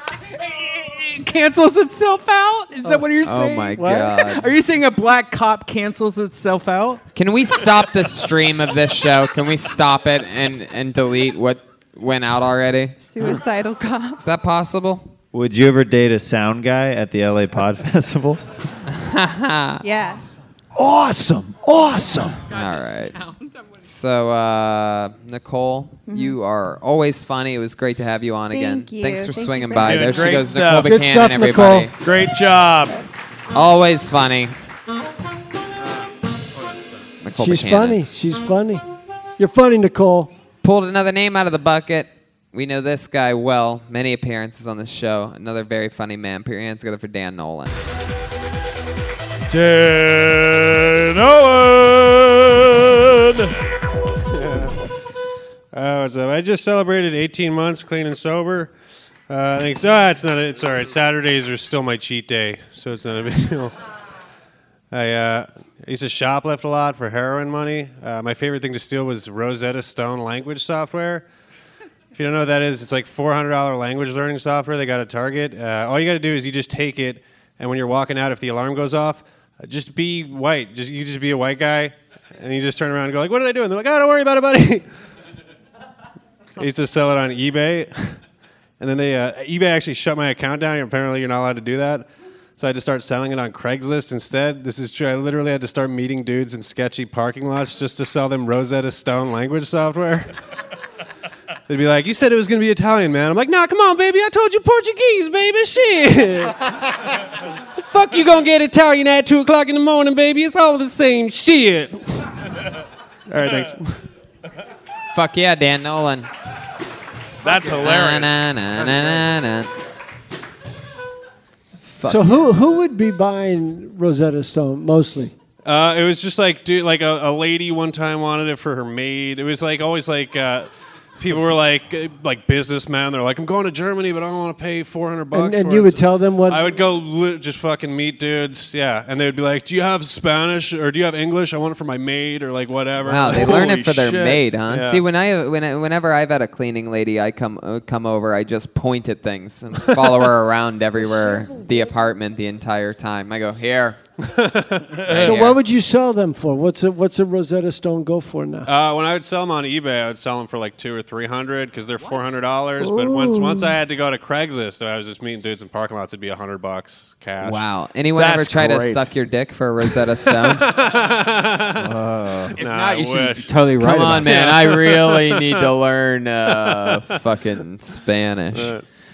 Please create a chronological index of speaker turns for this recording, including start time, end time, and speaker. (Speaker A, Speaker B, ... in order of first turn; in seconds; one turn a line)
Speaker A: 0.6-7.0
Speaker B: 3.2-4.5
Speaker C: 3.7-4.1
Speaker B: 7.1-13.0
Speaker D: 13.0-14.2
Speaker B: 14.2-15.1
Speaker E: 15.3-18.4
Speaker B: 18.9-19.8
Speaker D: 19.8-20.2
Speaker E: 20.8-22.4
Speaker B: 22.5-23.2
Speaker B: 23.8-31.9
Speaker D: 26.1-26.4
Speaker D: 28.5-30.4
Speaker F: 29.8-31.0
Speaker C: 30.8-31.9
Speaker F: 32.0-33.0
Speaker B: 33.5-34.5
Speaker B: 37.2-38.0
Speaker C: 37.3-38.8
Speaker C: 39.4-40.3
Speaker B: 40.6-47.8
Speaker F: 49.5-53.5
Speaker G: 54.3-54.7
Speaker G: 55.7-58.7
Speaker G: 59.3-63.7
Speaker G: 64.9-71.2
Speaker G: 72.1-84.8
Speaker G: 86.6-88.2
Speaker G: 88.8-92.1
Speaker G: 92.6-100.3
Speaker G: 101.7-106.8
Speaker G: 107.9-112.3
Speaker G: 113.3-114.0
Speaker B: 115.1-116.3
Speaker F: 117.4-119.0
Speaker B: 117.8-119.7
Speaker B: 121.9-122.5
Speaker C: 122.0-125.3
Speaker G: 125.6-143.6
Speaker C: 135.3-136.6
Speaker B: 143.0-154.0
Speaker F: 143.2-144.5
Speaker G: 144.7-145.0
Speaker G: 154.3-155.3
Speaker B: 155.1-155.6
Speaker C: 155.1-158.7
Speaker G: 158.7-167.7
Speaker B: 162.8-163.8
Speaker B: 167.4-170.6
Speaker F: 168.1-169.1
Speaker G: 170.5-171.9
Speaker E: 171.8-172.5
Speaker A: 172.5-174.5
Speaker G: 172.6-173.5
Speaker B: 173.8-178.8
Speaker G: 174.1-175.7
Speaker G: 176.6-177.2
Speaker G: 178.5-178.8